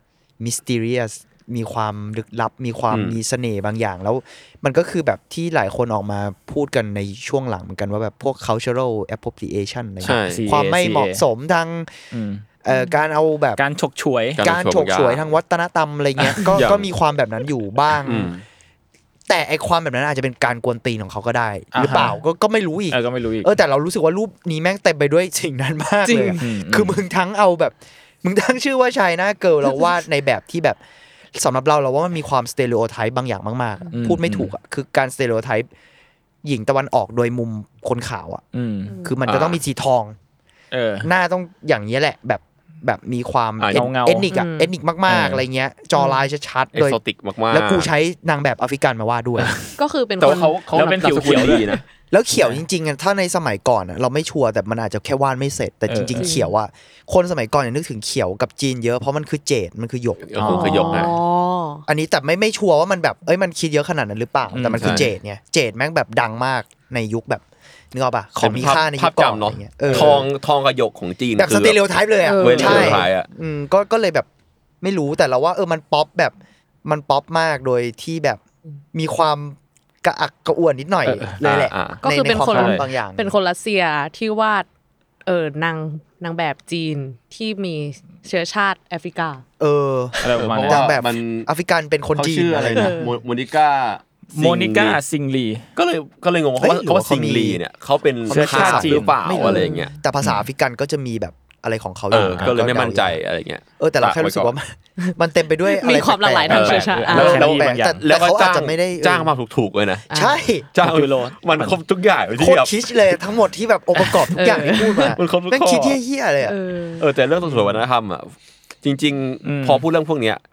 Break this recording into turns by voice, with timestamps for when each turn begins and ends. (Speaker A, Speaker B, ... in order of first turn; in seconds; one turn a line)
Speaker A: 0.4-11.9
Speaker B: 2.9-3.2
Speaker B: 10.0-10.4
Speaker C: 10.0-11.2
Speaker C: 12.1-12.4
Speaker A: 12.6-13.6
Speaker D: 12.7-13.0
Speaker C: 13.6-14.4
Speaker B: 14.4-15.3
Speaker A: 14.4-18.3
Speaker C: 16.2-16.4
Speaker B: 16.6-16.9
Speaker B: 18.0-18.4
Speaker A: 19.3-30.8
Speaker C: 21.7-22.2
Speaker C: 22.9-23.5
Speaker D: 26.1-26.4
Speaker C: 26.4-27.0
Speaker A: 31.3-35.7
Speaker C: 33.9-34.5
Speaker A: 36.4-38.4
Speaker C: 38.5-39.0
Speaker D: 38.9-39.2
Speaker A: 39.0-40.2
Speaker B: 39.3-39.6
Speaker C: 40.7-41.1
Speaker A: 41.0-47.0
Speaker B: 43.6-43.9
Speaker C: 43.7-44.3
Speaker D: 44.3-44.7
Speaker C: 45.1-45.4
Speaker D: 46.0-46.2
Speaker B: 46.7-47.9
Speaker A: 47.5-49.5
Speaker C: 49.4-49.6
Speaker D: 49.8-50.6
Speaker B: 50.2-51.8
Speaker C: 50.7-51.7
Speaker D: 51.2-51.8
Speaker A: 52.1-61.1
Speaker C: 55.9-56.3
Speaker D: 56.2-56.5
Speaker B: 60.2-61.1
Speaker D: 60.5-61.9
Speaker A: 61.9-70.3
Speaker C: 64.5-65.1
Speaker B: 64.8-65.1
Speaker B: 68.4-71.8
Speaker C: 69.9-70.2
Speaker A: 71.4-74.3
Speaker D: 72.2-73.1
Speaker B: 72.4-73.3
Speaker A: 74.8-78.4
Speaker A: 78.9-83.3
Speaker C: 81.0-81.4
Speaker B: 81.4-82.0
Speaker D: 82.0-84.7
Speaker C: 82.5-82.9
Speaker D: 85.2-89.4
Speaker A: 89.6-93.0
Speaker C: 90.2-90.9
Speaker B: 90.4-91.5
Speaker B: 92.1-95.0
Speaker D: 92.7-93.1
Speaker C: 94.3-95.7
Speaker B: 95.8-99.9
Speaker A: 96.6-97.6
Speaker A: 98.3-103.2
Speaker C: 98.3-99.2
Speaker D: 99.4-100.0
Speaker B: 102.1-104.5
Speaker C: 102.1-102.6
Speaker A: 103.8-109.3
Speaker D: 105.7-107.4
Speaker B: 106.5-110.1
Speaker C: 106.5-108.0
Speaker D: 110.1-110.4
Speaker A: 110.1-110.7
Speaker B: 110.7-112.9
Speaker C: 110.8-111.8
Speaker A: 112.4-116.6
Speaker D: 114.3-115.2
Speaker B: 115.2-116.0
Speaker D: 116.4-117.1
Speaker B: 117.0-120.4
Speaker C: 119.4-119.8